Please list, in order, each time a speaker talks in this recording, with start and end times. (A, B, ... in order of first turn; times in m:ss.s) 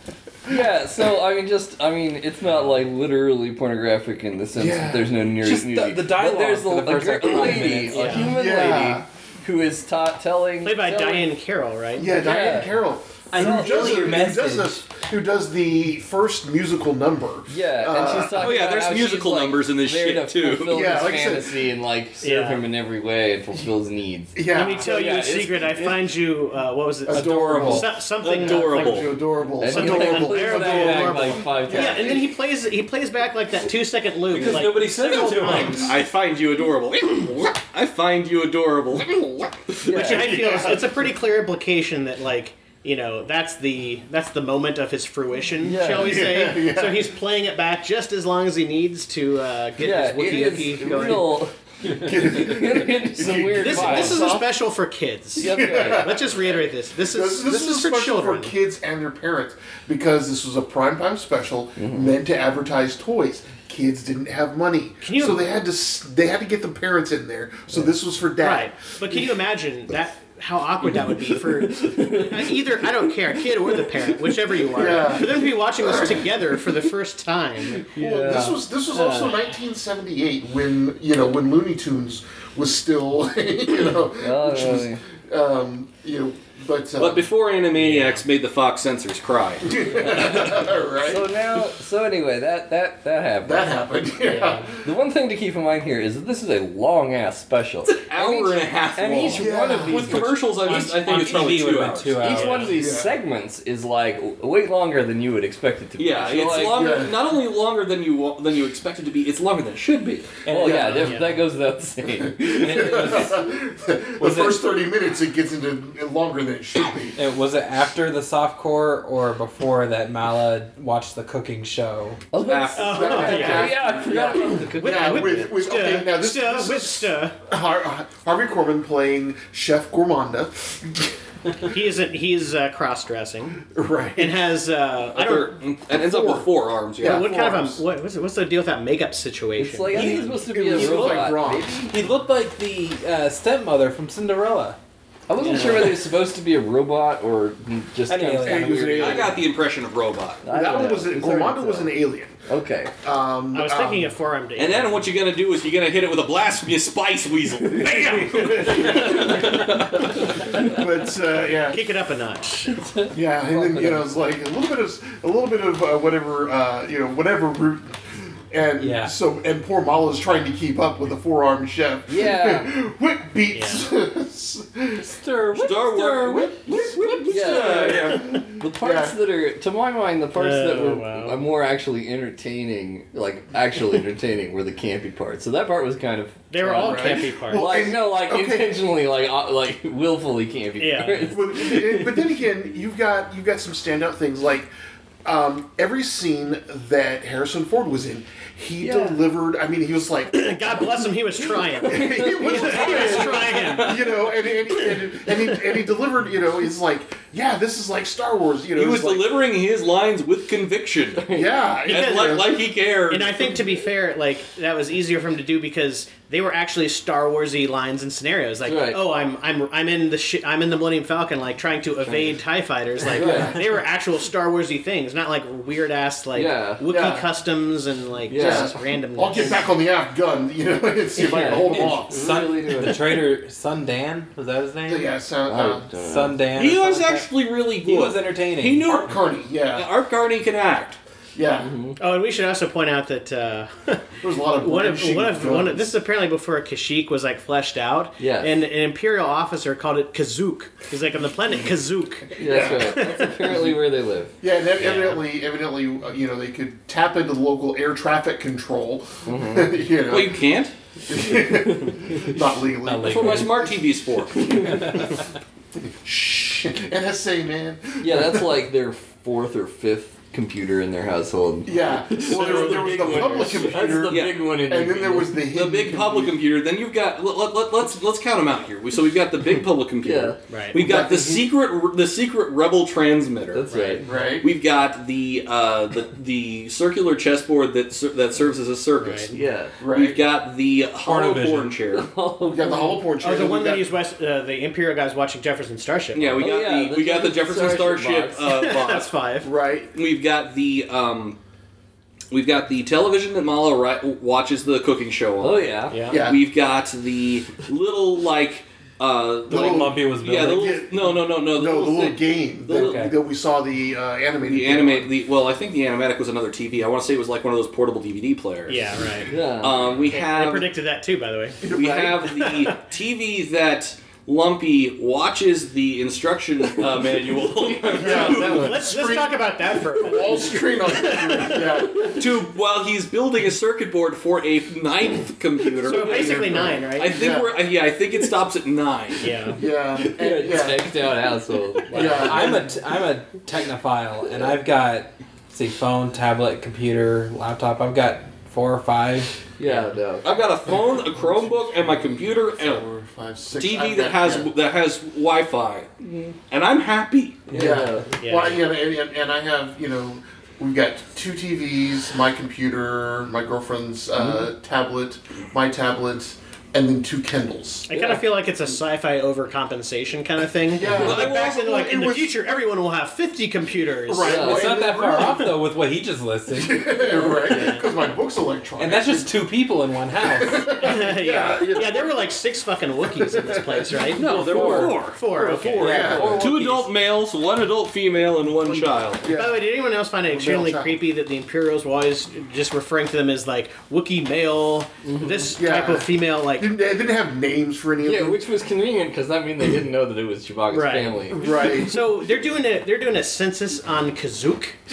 0:00.5-0:11.3 A
0:04.5-0:05.2 B
0:05.4-0:08.2 C
0:07.9-0:08.3 D
0:08.1-0:09.0 B
0:10.6-0:12.1 D
0:12.0-0:18.5 B
0:12.1-0:12.7 A
0:13.3-0:14.8 C
0:13.3-0:14.2 A
0:17.5-0:25.9 A
0:18.3-0:20.8 E
0:20.6-0:21.7 B
0:22.2-0:22.6 D
0:24.3-0:24.9 B
0:24.5-0:35.9 D
0:27.0-0:32.3 B
0:27.1-0:27.9 C
0:28.2-0:29.1 E
0:29.6-0:32.2 A
0:34.3-0:35.9 C
0:34.3-0:39.8 E
0:39.8-0:40.4 A
0:39.8-0:40.9 B
0:39.9-0:51.4 D
0:45.6-0:46.3 A
0:45.9-0:47.1 B
0:49.8-0:54.5 A
0:50.6-0:54.5 B
0:53.6-0:58.6 D
0:55.4-0:56.2 A
0:55.4-1:09.2 B
1:01.8-1:02.1 A
1:05.0-1:05.4 D
1:08.4-1:17.9 D
1:11.1-1:12.6 A
1:14.7-1:16.4 B
1:17.9-1:27.3 B
1:17.9-1:18.6 A
1:18.9-1:19.5 D
1:24.2-1:25.0 A
1:27.0-1:30.1 E
1:27.8-1:28.2 D
1:29.6-1:31.6 B
1:30.0-1:33.7 A
1:33.4-1:34.8 B
1:34.2-1:34.7 D
1:34.8-1:41.6 A
1:37.8-1:42.5 E
1:39.3-1:40.2 B
1:39.9-1:42.7 C
1:42.1-1:46.9 A
1:42.3-1:42.7 D
1:42.5-1:43.2 B
1:46.0-1:50.4 E
1:46.6-1:47.2 B
1:50.4-1:51.1 C
1:50.5-1:53.3 A
1:50.6-1:51.2 B
1:51.0-1:51.3 D
1:52.2-1:57.2 B
1:52.5-1:53.4 C
1:54.2-1:54.6 C
1:57.2-2:02.2 C
2:02.3-2:05.4 A
2:02.4-2:03.8 E
2:02.8-2:03.8 D
2:02.8-2:11.1 B
2:04.6-2:07.4 D
2:11.6-2:13.6 D
2:13.7-2:14.4 B
2:14.2-2:15.6 D
2:15.1-2:17.3 E
2:16.1-2:16.4 B
2:17.0-2:17.8 B
2:17.0-2:20.4 D
2:19.6-2:21.9 A
2:19.9-2:21.8 B
2:20.7-2:21.2 C
2:21.9-2:24.8 C
2:25.3-2:29.4 A
2:25.4-2:25.9 D
2:28.1-2:29.0 C
2:28.4-2:29.4 B
2:28.9-2:30.4 E
2:30.4-2:31.9 A
2:30.4-2:32.4 B
2:32.5-2:32.9 A
2:33.0-2:34.1 B
2:33.5-2:35.0 D
2:34.6-2:40.2 E
2:37.7-2:41.8 B
2:41.7-2:42.8 D
2:43.0-2:44.0 A
2:43.1-2:55.2 B
2:48.8-2:49.1 C
2:52.1-2:52.7 A
2:53.5-2:53.8 D
2:55.3-2:56.5 A
2:55.5-2:58.5 E
2:56.2-2:59.2 B
2:57.3-3:12.2 A
3:00.3-3:01.4 D
3:06.5-3:07.7 D
3:06.7-3:08.8 B
3:10.8-3:11.3 D
3:11.3-3:14.7 B
3:15.2-3:21.0 B
3:18.8-3:19.2 A
3:20.3-3:24.0 D
3:21.8-3:29.3 B
3:22.8-3:24.0 E
3:28.7-3:31.3 E
3:31.2-3:31.5 A
3:31.3-3:32.6 B
3:31.8-3:32.5 D
3:31.8-3:33.5 E
3:33.1-3:49.6 D
3:38.6-3:39.0 A
3:43.1-3:43.6 A
3:43.2-3:43.6 B
3:46.3-3:46.8 A
3:46.8-3:47.3 B
3:48.3-3:48.7 A
3:48.3-3:52.2 B
3:51.1-3:53.2 A
3:51.5-3:55.1 C
3:54.9-3:55.9 B
3:55.5-3:56.4 A
3:56.0-3:59.0 C
3:56.5-3:59.1 E
3:58.8-3:59.9 B
3:59.7-4:01.0 E
4:01.3-4:01.7 B
4:01.6-4:02.0 A
4:02.0-4:04.0 D
4:04.2-4:05.9 B
4:04.6-4:13.4 D
4:08.2-4:08.5 A
4:12.4-4:13.8 B
4:12.4-4:15.2 A
4:14.4-4:20.4 B
4:19.2-4:19.7 A
4:20.1-4:20.7 E
4:21.1-4:23.8 B
4:22.8-4:23.6 C
4:23.0-4:24.6 E
4:24.4-4:24.8 A
4:24.6-4:25.2 C
4:25.8-4:28.6 B
4:28.0-4:35.4 A
4:31.6-4:36.3 B
4:32.2-4:34.4 E
4:35.5-4:43.7 E
4:40.0-4:40.4 A
4:40.5-4:40.8 D
4:40.7-4:41.5 B
4:43.5-4:44.0 A
4:43.7-4:44.0 D
4:44.0-4:44.5 B
4:44.4-4:52.1 E
4:49.0-4:49.3 D
4:49.3-4:49.8 A
4:49.8-4:50.2 B
4:51.0-4:51.7 C
4:51.9-4:53.0 A
4:52.4-4:53.9 B
4:53.2-4:56.4 D
4:56.1-4:59.1 E
4:56.4-4:58.4 A
4:58.5-4:59.5 D
4:59.4-4:59.9 B
4:59.9-5:01.4 E
5:02.3-5:13.1 E
5:05.4-5:06.0 A
5:05.9-5:06.2 D
5:06.1-5:06.4 B
5:09.5-5:10.7 C
5:09.5-5:15.1 B
5:12.7-5:13.1 C
5:14.4-5:18.9 E
5:18.7-5:19.4 D
5:19.3-5:19.9 A
5:19.6-5:20.7 E
5:20.1-5:21.6 D
5:21.6-5:22.5 B
5:21.7-5:28.8 E
5:22.4-5:22.7 D
5:27.9-5:32.2 B
5:28.0-5:31.9 D
5:32.0-5:39.3 E
5:35.8-5:37.2 D
5:35.9-5:37.5 B
5:39.2-5:39.6 D
5:39.6-5:40.9 B
5:40.0-5:42.6 A
5:41.9-5:42.2 D
5:41.9-5:42.7 B
5:41.9-5:49.3 C
5:49.6-5:50.3 A
5:50.2-5:52.8 E
5:51.0-5:54.5 B
5:53.5-5:55.9 E
5:56.0-5:56.3 A
5:56.5-5:57.5 E
5:57.5-5:57.8 C
5:57.5-5:58.1 A
5:57.5-6:07.9 B
5:58.2-5:58.6 D
6:04.2-6:04.5 A
6:07.9-6:14.8 D
6:07.9-6:08.2 A
6:10.7-6:12.6 B
6:11.0-6:11.6 E
6:14.0-6:15.5 B
6:14.2-6:14.7 A
6:14.3-6:17.0 C
6:16.5-6:19.3 B
6:17.1-6:17.9 D
6:18.8-6:20.8 C
6:20.2-6:22.2 B
6:20.8-6:26.2 D
6:23.2-6:24.1 B
6:24.2-6:25.2 E
6:24.2-6:25.0 C
6:24.6-6:26.7 B
6:25.8-6:26.7 C
6:25.9-6:26.5 A
6:26.0-6:29.2 E
6:28.7-6:29.6 B
6:29.3-6:36.7 D
6:30.3-6:31.0 B
6:35.0-6:35.5 A
6:35.6-6:38.4 B
6:38.0-6:41.5 A
6:40.7-6:44.8 D
6:41.3-6:42.0 B